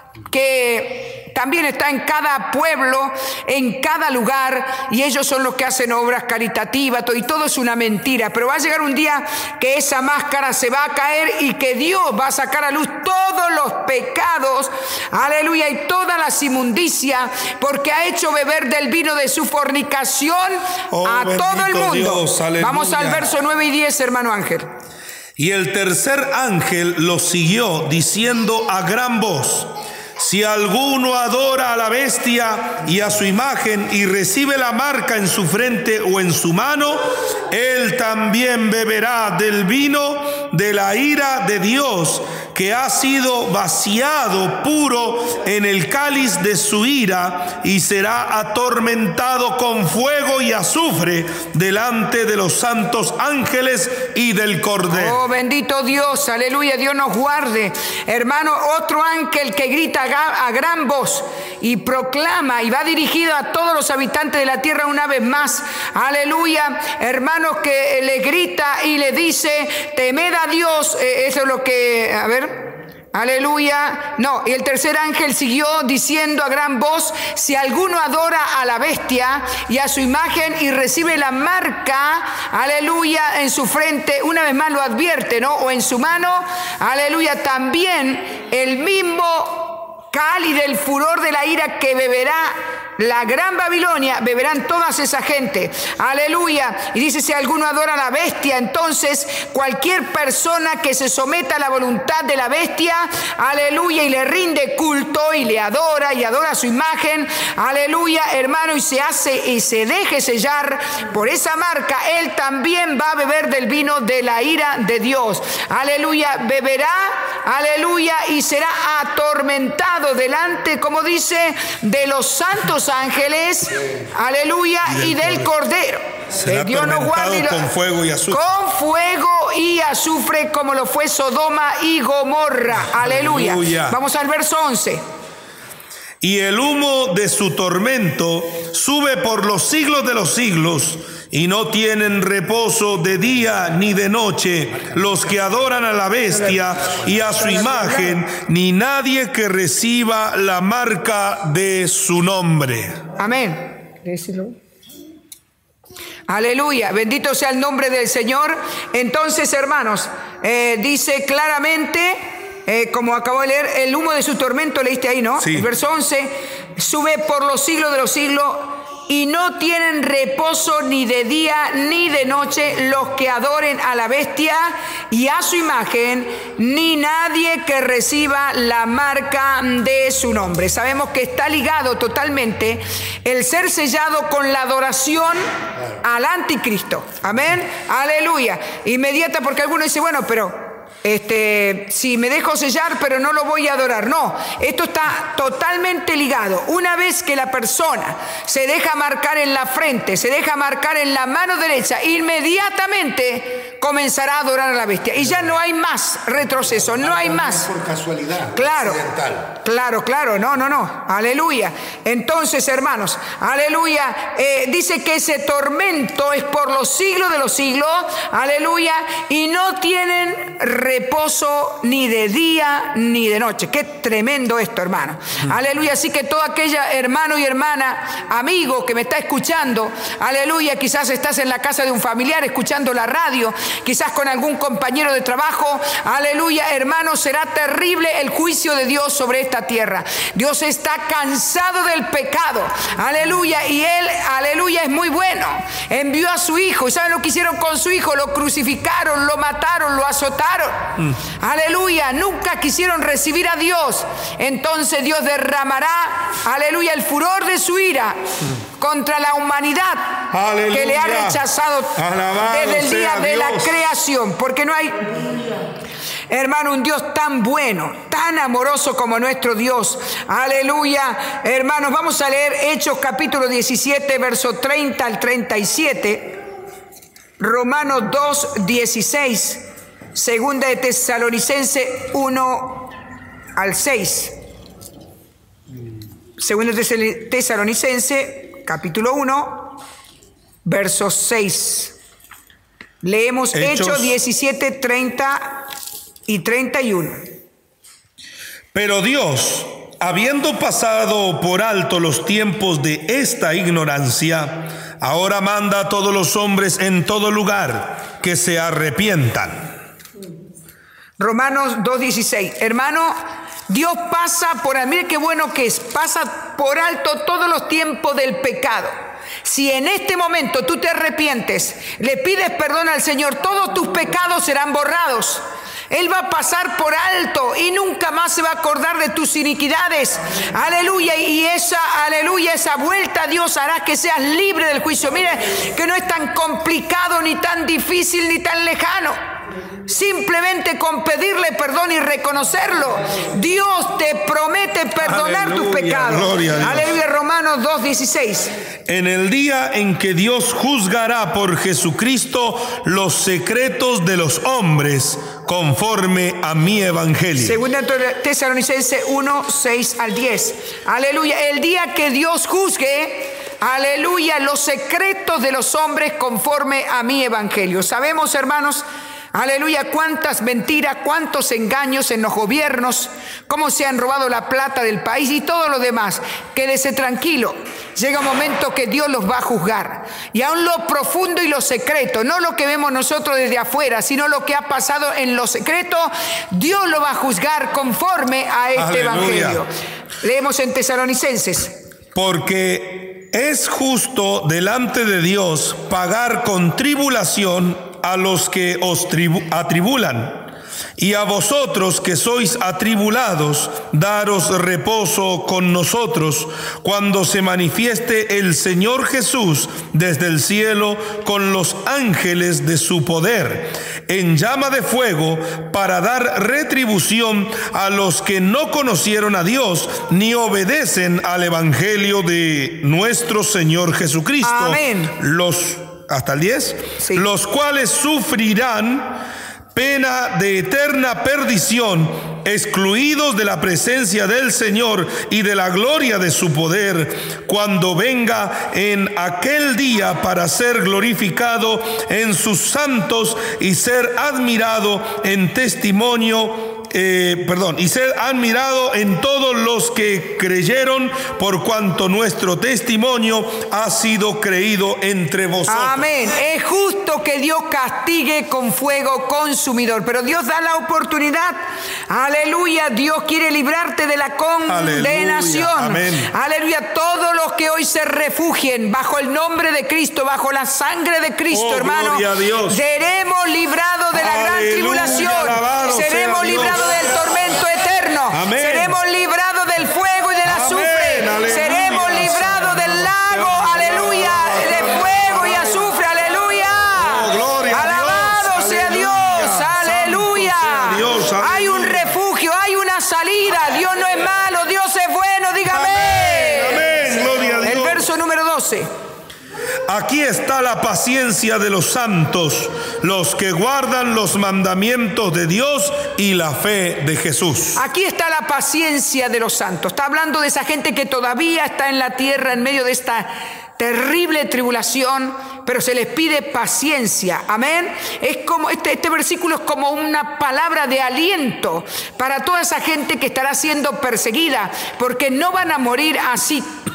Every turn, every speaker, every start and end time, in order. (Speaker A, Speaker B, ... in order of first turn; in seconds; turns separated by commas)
Speaker A: 0.3-24.7, Speaker B: 20.9-23.3, Speaker B: 25.4-55.2, Speaker A: 54.9-127.7, Speaker B: 124.9-125.5, Speaker B: 126.3-128.4, Speaker A: 128.3-135.0, Speaker B: 132.9-134.0, Speaker B: 136.2-153.0, Speaker A: 146.9-148.2, Speaker A: 153.2-154.6, Speaker A: 156.3-185.5, Speaker B: 165.4-165.7, Speaker A: 186.0-207.7, Speaker C: 206.7-209.5, Speaker A: 208.6-209.0, Speaker A: 209.5-258.2, Speaker A: 258.8-265.2, Speaker B: 260.3-261.4, Speaker B: 261.9-263.8, Speaker A: 266.3-276.4, Speaker A: 277.4-282.9, Speaker A: 283.6-284.4, Speaker A: 286.4-289.8, Speaker A: 290.6-291.9, Speaker A: 293.0-295.6, Speaker B: 293.5-294.1, Speaker A: 296.3-297.3, Speaker B: 298.7-309.8, Speaker A: 311.2-339.2, Speaker A: 339.9-348.5, Speaker B: 345.0-346.9, Speaker B: 348.9-357.6, Speaker A: 357.4-389.7, Speaker B: 388.8-389.6, Speaker A: 390.2-391.8, Speaker B: 392.1-429.2, Speaker A: 424.4-425.1, Speaker B: 429.7-456.1, Speaker A: 455.7-496.9, Speaker B: 464.7-466.3, Speaker B: 471.5-472.8, Speaker B: 474.1-477.2, Speaker B: 478.3-479.0, Speaker B: 480.4-485.7, Speaker B: 486.9-492.1, Speaker B: 495.7-498.1, Speaker A: 497.6-498.9, Speaker B: 499.9-507.8, Speaker A: 507.8-526.7